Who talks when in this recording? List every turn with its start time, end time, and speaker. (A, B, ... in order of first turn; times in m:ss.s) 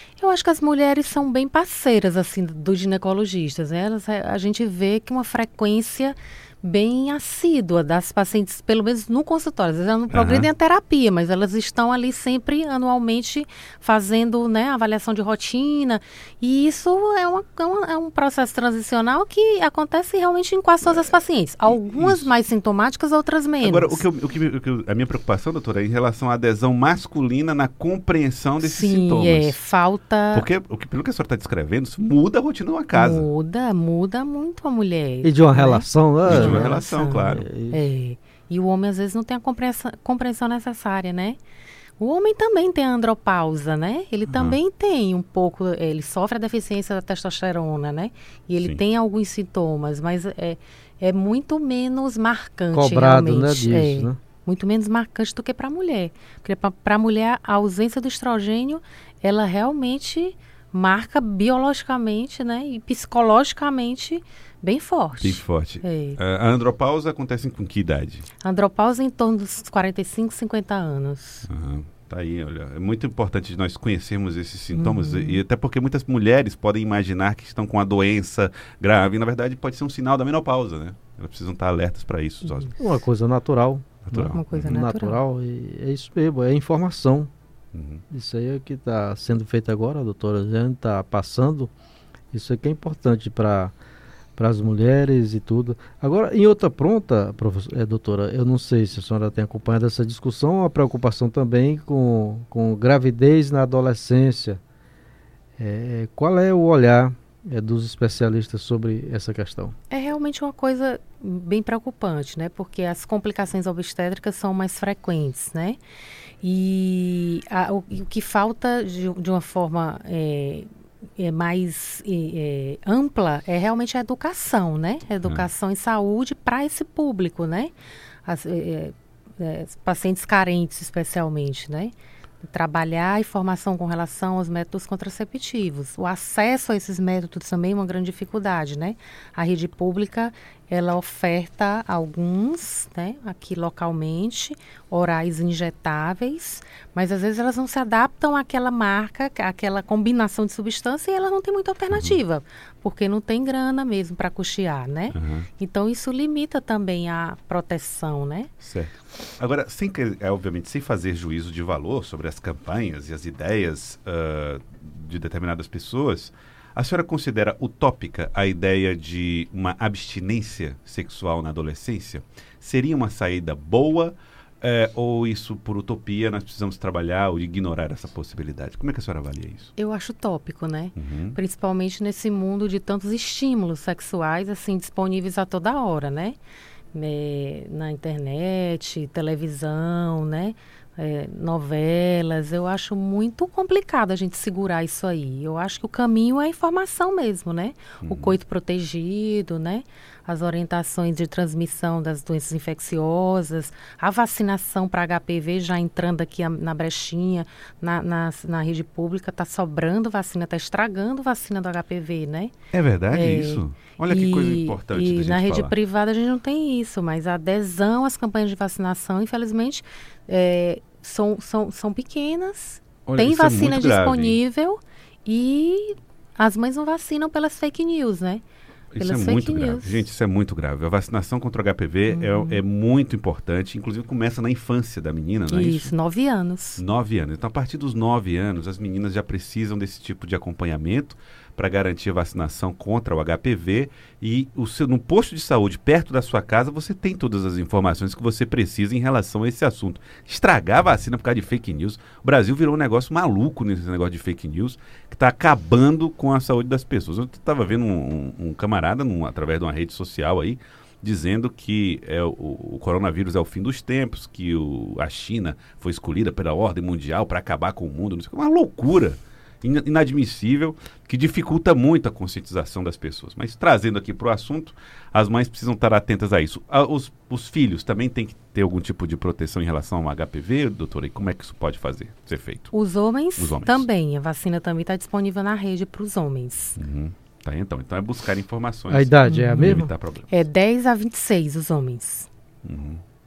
0:00.2-0:24.0 A
0:10.1-0:10.5 B
0:20.9-0:21.1 B
0:21.6-0:22.3 B
0:23.6-0:29.6 B
0:28.6-0:30.5 A
0:30.3-0:33.3 B
0:32.9-0:41.4 A
0:35.2-0:37.8 C
0:36.3-0:37.5 B
0:42.0-1:06.2 A
0:44.3-0:44.6 B
0:52.7-0:54.2 C
1:05.2-1:08.2 B
1:08.4-1:11.5 A
1:11.5-1:22.8 B
1:14.7-1:15.4 A
1:22.4-1:22.7 A
1:22.8-1:27.3 C
1:24.1-1:24.7 B
1:24.2-1:25.2 A
1:27.7-1:28.0 B
1:28.1-1:31.7 C
1:32.3-1:33.7 C
1:34.4-1:44.6 C
1:45.6-1:49.7 C
1:49.9-1:55.8 A
1:56.4-2:07.7 A
2:08.2-2:38.5 A
2:31.9-2:32.2 B
2:35.1-2:35.5 B
2:38.6-2:59.7 B
2:59.8-3:06.4 A
3:01.0-3:01.4 B
3:06.9-3:32.5 A
3:18.0-3:18.4 B
3:32.7-3:35.8 B
3:33.1-3:48.4 A
3:43.1-3:44.4 B
3:48.9-3:55.9 B
3:49.0-3:50.0 A
3:52.1-3:52.6 A
3:55.5-3:56.8 A
3:56.8-4:42.7 B
4:42.7-4:46.8 A
4:43.4-4:43.9 B
4:46.8-4:50.4 B
4:48.9-4:49.9 C
4:49.2-4:52.3 A
4:52.6-4:53.0 B